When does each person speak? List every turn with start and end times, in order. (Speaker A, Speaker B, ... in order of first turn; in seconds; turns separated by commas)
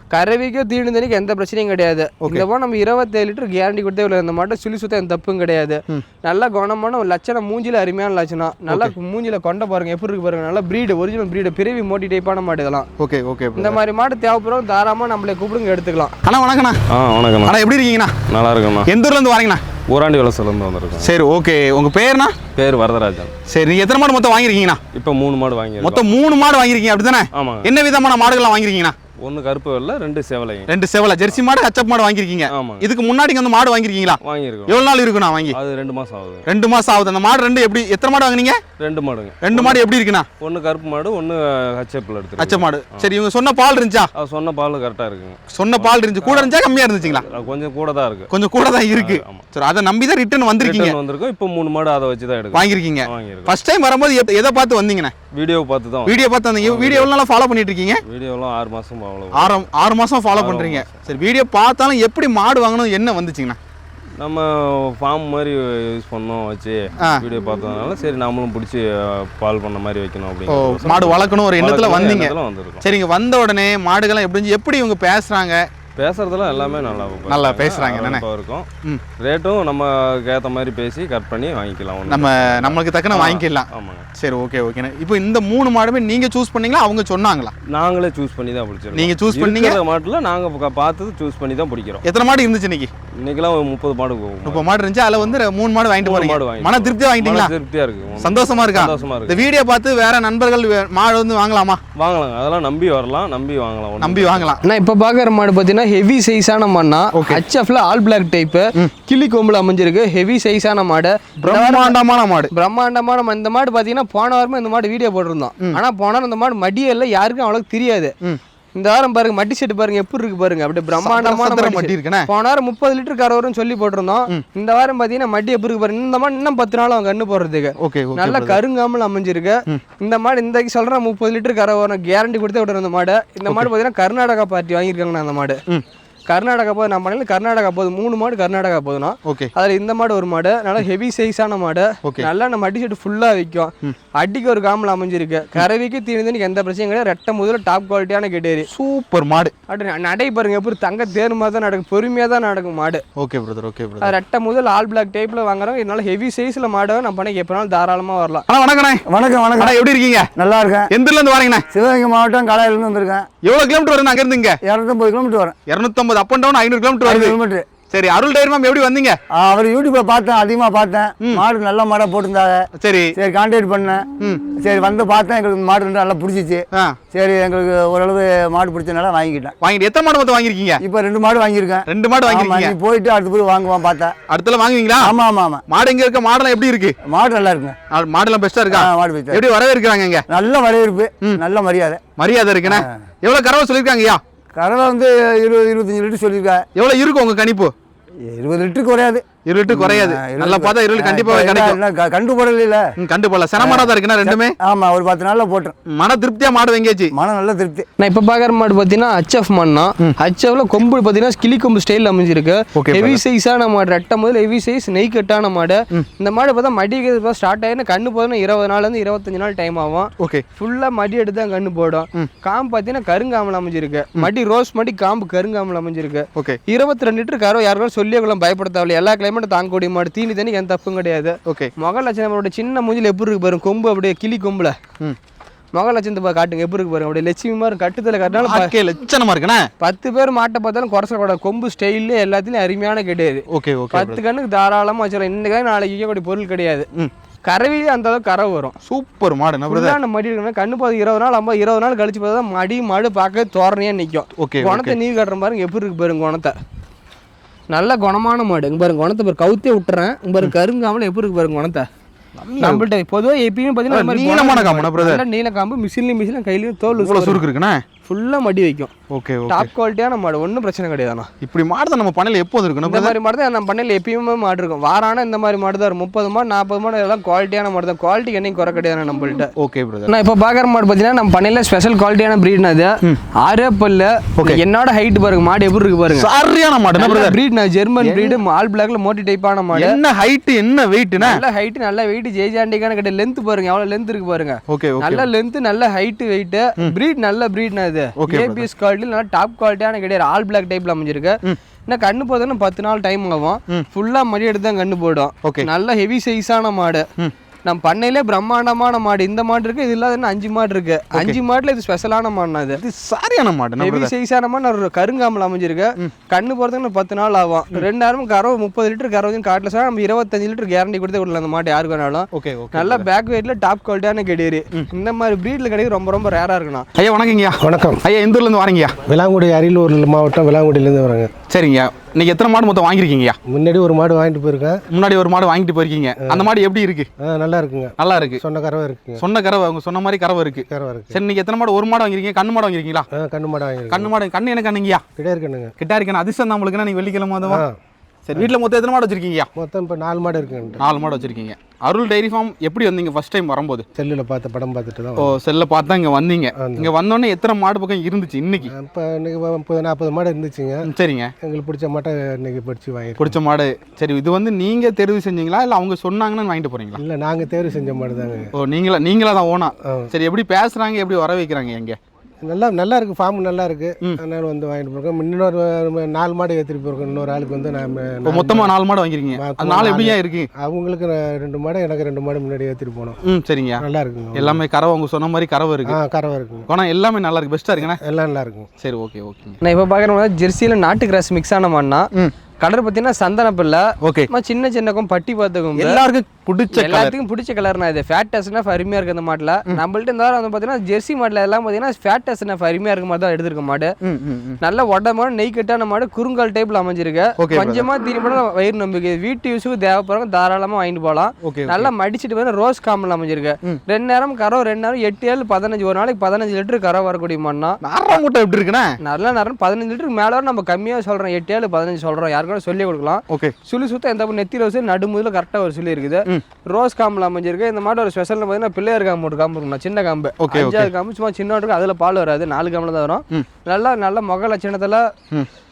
Speaker A: 0.1-12.9, Speaker B: 8.7-8.9, Speaker B: 13.0-13.8, Speaker A: 13.6-16.1, Speaker B: 16.2-16.8, Speaker C: 16.9-17.6, Speaker B: 17.4-18.1, Speaker C: 18.3-18.9, Speaker B: 18.9-19.6, Speaker C: 19.9-21.1, Speaker B: 21.0-22.4, Speaker C: 22.6-23.3, Speaker B: 23.5-24.8, Speaker C: 24.9-26.1, Speaker B: 25.8-28.9, Speaker C: 27.3-27.7, Speaker C: 29.2-30.7, Speaker B: 30.7-35.6, Speaker C: 32.5-32.9, Speaker C: 34.2-34.8, Speaker C: 35.5-36.5, Speaker B: 36.5-38.6, Speaker C: 38.8-39.8, Speaker B: 39.4-40.3, Speaker C: 40.4-43.1, Speaker B: 42.4-44.1, Speaker C: 44.2-48.3, Speaker B: 45.5-47.2, Speaker B: 48.3-51.0, Speaker C: 48.9-49.4, Speaker C: 50.6-53.5, Speaker B: 52.5-55.1, Speaker C: 55.3-57.1, Speaker B: 56.0-58.0, Speaker C: 58.1-59.6, Speaker B: 59.3-63.6, Speaker C: 60.3-61.1, Speaker C: 64.2-68.8, Speaker C: 69.3-72.8, Speaker B: 70.5-75.7, Speaker C: 76.0-78.7, Speaker B: 77.3-78.2, Speaker C: 79.2-84.0, Speaker B: 82.1-87.5, Speaker C: 87.7-92.0, Speaker B: 88.9-89.8, Speaker B: 92.0-92.9, Speaker C: 93.2-94.7, Speaker B: 94.4-97.5, Speaker C: 96.0-99.4, Speaker B: 98.2-101.8, Speaker C: 102.0-104.6, Speaker B: 104.0-104.6, Speaker A: 104.6-112.0, Speaker B: 107.1-107.4, Speaker B: 111.4-112.5, Speaker A: 112.5-118.1, Speaker A: 118.7-135.6, Speaker B: 121.0-122.3, Speaker B: 127.8-128.6, Speaker A: 136.3-148.7, Speaker B: 139.2-139.5, Speaker B: 148.7-149.5, Speaker A: 149.7-153.0, Speaker B: 153.2-154.1, Speaker A: 154.0-158.4, Speaker B: 158.5-159.0, Speaker D: 159.1-159.8, Speaker B: 159.6-160.3, Speaker D: 160.3-160.9, Speaker B: 160.9-161.6, Speaker D: 161.7-163.3, Speaker B: 163.4-164.6, Speaker D: 164.6-165.6, Speaker B: 165.7-169.2, Speaker D: 167.0-167.7, Speaker D: 169.3-179.5, Speaker B: 172.8-173.1, Speaker B: 174.2-174.4, Speaker B: 176.7-177.0, Speaker B: 179.6-180.8, Speaker D: 180.8-184.1, Speaker B: 181.9-182.7, Speaker B: 184.3-185.2, Speaker D: 185.0-185.6, Speaker B: 185.7-186.9, Speaker D: 187.0-187.8, Speaker B: 187.9-190.2, Speaker D: 188.7-189.4, Speaker D: 190.3-192.0, Speaker B: 192.2-194.2, Speaker D: 192.6-192.9, Speaker D: 194.5-196.7, Speaker B: 196.8-197.7, Speaker D: 198.2-202.9, Speaker B: 199.4-201.8, Speaker B: 203.0-204.5, Speaker D: 203.6-205.7, Speaker B: 205.9-207.1, Speaker D: 207.1-207.8, Speaker A: 208.0-234.8, Speaker B: 212.8-213.2, Speaker B: 220.2-220.4, Speaker B: 231.5-231.7, Speaker A: 235.7-238.7, Speaker B: 238.4-239.7, Speaker A: 239.8-246.8, Speaker B: 243.5-244.2, Speaker A: 247.4-248.8, Speaker B: 248.8-250.0, Speaker A: 249.7-256.6, Speaker B: 254.4-254.9, Speaker A: 257.7-261.9, Speaker B: 262.4-262.8, Speaker A: 262.6-267.4, Speaker B: 263.9-265.2, Speaker B: 266.9-267.8, Speaker A: 268.0-268.9, Speaker B: 269.1-269.7, Speaker A: 269.5-271.3, Speaker B: 271.4-273.1, Speaker A: 272.8-279.5, Speaker B: 279.6-280.1, Speaker A: 280.1-286.3, Speaker B: 286.1-287.4, Speaker A: 286.9-290.0, Speaker B: 288.0-288.4, Speaker B: 289.7-291.4, Speaker A: 291.2-307.0, Speaker B: 294.7-295.3, Speaker B: 298.2-298.6, Speaker B: 305.4-305.7, Speaker A: 307.6-312.8, Speaker B: 312.8-314.1, Speaker A: 313.8-326.9, Speaker B: 322.3-323.0, Speaker B: 326.9-328.9, Speaker E: 327.6-328.0, Speaker E: 329.1-331.3, Speaker B: 331.5-333.4, Speaker E: 333.5-334.8, Speaker B: 334.9-337.1, Speaker E: 337.2-339.2, Speaker B: 338.0-338.4, Speaker B: 339.2-343.1, Speaker E: 340.7-341.2, Speaker E: 343.1-344.1, Speaker B: 343.9-345.0, Speaker E: 345.1-345.7, Speaker B: 345.8-347.6, Speaker B: 348.2-349.5, Speaker E: 349.6-350.8, Speaker B: 350.8-353.8, Speaker E: 353.9-355.4, Speaker B: 355.2-358.7, Speaker E: 356.5-356.9, Speaker E: 358.6-360.9, Speaker B: 360.9-361.3, Speaker E: 361.4-363.4, Speaker B: 363.2-367.0, Speaker E: 367.0-368.5, Speaker B: 368.6-372.0, Speaker E: 369.9-370.1, Speaker E: 372.4-378.7, Speaker B: 378.2-380.5, Speaker E: 379.3-383.2, Speaker B: 383.2-383.8, Speaker E: 383.8-384.6, Speaker B: 384.3-386.0, Speaker E: 385.9-386.7, Speaker B: 386.7-388.0, Speaker E: 387.8-388.7, Speaker B: 388.8-389.6, Speaker A: 389.6-392.1, Speaker A: 392.6-396.0, Speaker B: 394.0-394.3, Speaker B: 395.8-397.1, Speaker A: 396.7-403.9, Speaker B: 404.0-404.6, Speaker A: 404.6-417.8, Speaker B: 407.4-407.9, Speaker B: 411.4-411.9, Speaker B: 417.8-418.9, Speaker A: 419.0-435.1, Speaker B: 430.4-430.9